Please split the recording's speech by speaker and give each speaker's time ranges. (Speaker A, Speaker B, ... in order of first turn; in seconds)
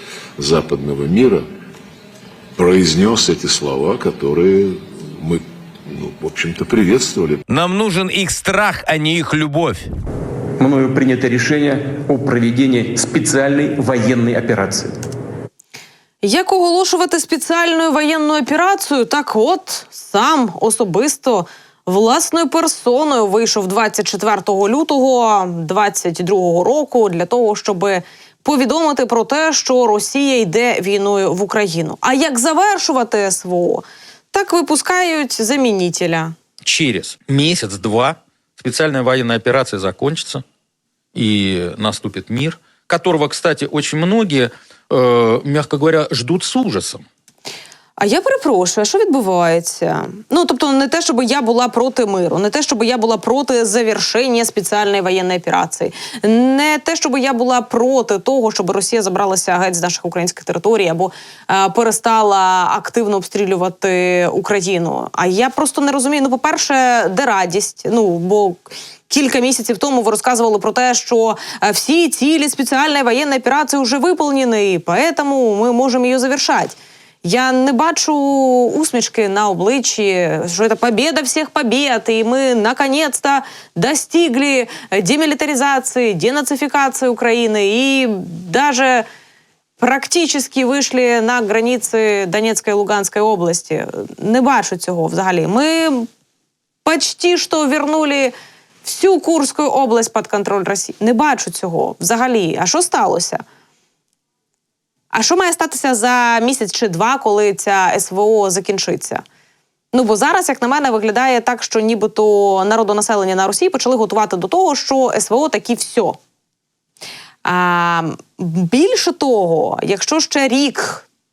Speaker A: 0.4-1.4, 2.5-7.4
Speaker B: 7.5-9.9
Speaker C: 10.6-15.0
Speaker D: 16.2-36.4, 48.0-89.0, 89.8-96.1, 96.8-103.4, 105.1-109.2, 109.9-116.2, 117.5-121.0
Speaker E: 36.6-40.4, 41.1-47.0